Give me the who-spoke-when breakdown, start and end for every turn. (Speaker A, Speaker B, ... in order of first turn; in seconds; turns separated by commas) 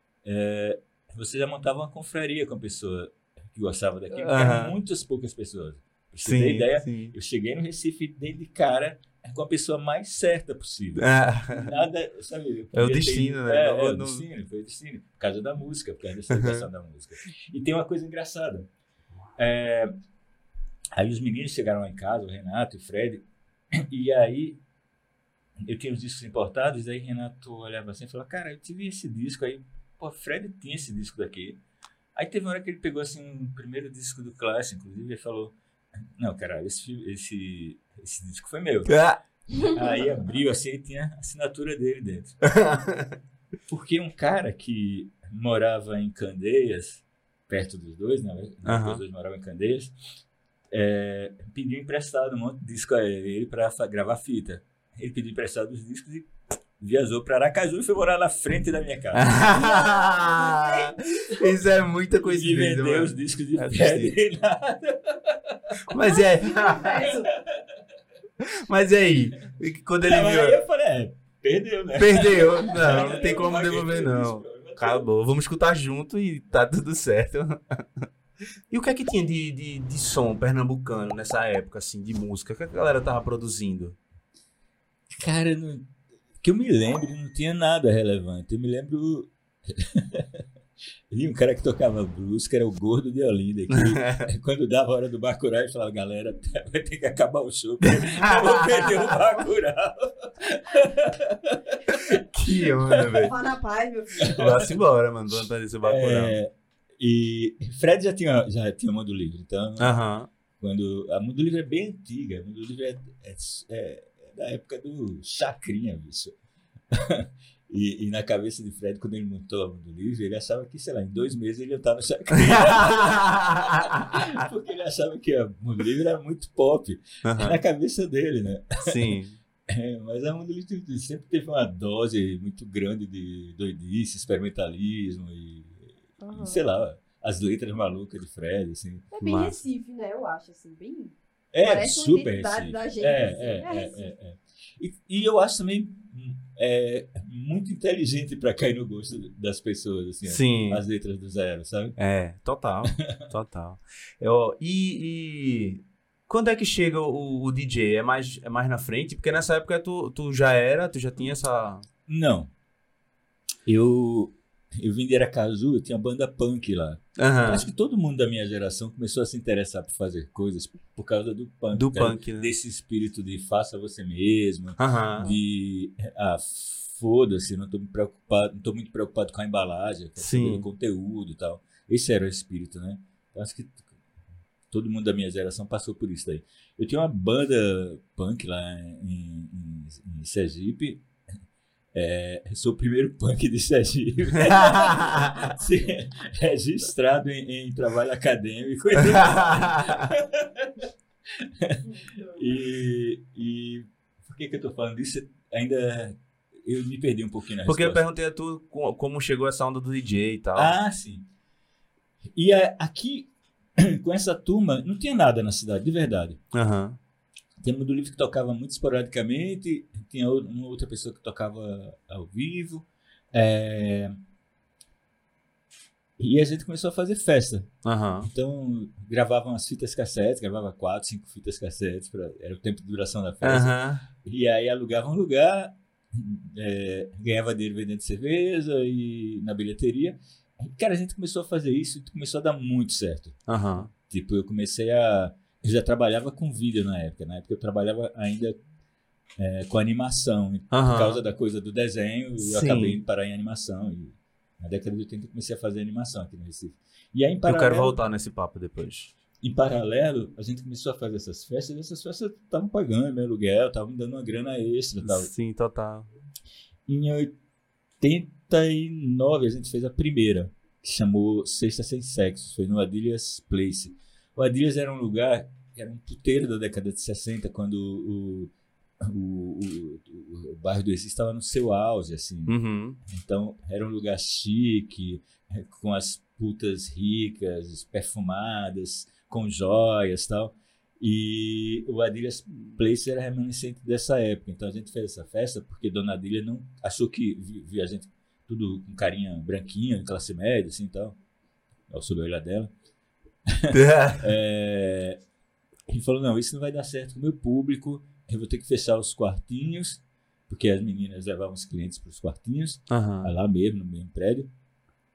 Speaker A: 0.2-18.7, Speaker B: 4.1-4.8, Speaker B: 6.2-7.1, Speaker B: 10.9-11.7, Speaker B: 12.7-14.2, Speaker B: 16.3-16.6, Speaker A: 19.4-19.9, Speaker A: 20.9-24.6, Speaker A: 25.6-31.6, Speaker A: 32.1-39.0, Speaker B: 38.9-39.2, Speaker A: 39.6-42.4, Speaker B: 42.5-43.1, Speaker A: 43.7-49.9, Speaker B: 48.6-49.0, Speaker A: 50.7-59.4, Speaker B: 59.1-64.1, Speaker C: 59.5-61.0, Speaker A: 62.1-65.8, Speaker B: 65.9-67.1, Speaker C: 66.1-67.2, Speaker A: 66.9-67.8, Speaker B: 68.4-70.6, Speaker A: 70.0-75.1, Speaker B: 72.0-78.1, Speaker B: 78.7-84.0, Speaker A: 85.1-85.8, Speaker A: 86.4-90.4, Speaker A: 91.1-103.2, Speaker B: 93.7-94.3, Speaker B: 97.8-98.3, Speaker B: 101.9-103.3, Speaker C: 103.2-104.6, Speaker B: 104.3-106.4, Speaker A: 105.8-110.0, Speaker B: 109.8-110.3, Speaker A: 110.6-116.3, Speaker A: 116.9-129.1, Speaker B: 127.2-127.6, Speaker B: 128.8-129.4, Speaker A: 129.7-139.1, Speaker C: 136.2-136.6, Speaker C: 139.1-144.1, Speaker B: 139.2-139.6, Speaker A: 141.5-152.0, Speaker B: 150.2-150.8, Speaker B: 152.0-161.9, Speaker A: 162.1-162.5, Speaker A: 163.6-183.8, Speaker B: 167.2-167.7, Speaker B: 171.7-172.5, Speaker B: 174.8-175.3, Speaker B: 180.2-180.6, Speaker A: 184.7-191.1, Speaker A: 191.9-208.0, Speaker B: 199.4-199.9, Speaker C: 201.8-202.5, Speaker B: 207.6-210.7, Speaker A: 210.5-211.3, Speaker A: 212.3-216.4, Speaker B: 216.5-217.0, Speaker A: 217.6-224.2, Speaker A: 226.2-248.6, Speaker B: 227.8-228.3, Speaker B: 233.4-234.1, Speaker B: 243.5-243.9, Speaker A: 249.4-258.0, Speaker B: 250.7-251.2, Speaker B: 252.4-253.0, Speaker B: 257.4-259.1, Speaker A: 259.4-265.3, Speaker B: 265.0-266.1, Speaker A: 266.9-267.4, Speaker A: 268.0-301.2, Speaker B: 282.5-283.0, Speaker A: 301.9-302.7, Speaker A: 303.5-305.2, Speaker B: 303.7-304.2, Speaker A: 305.9-314.5, Speaker B: 312.9-313.3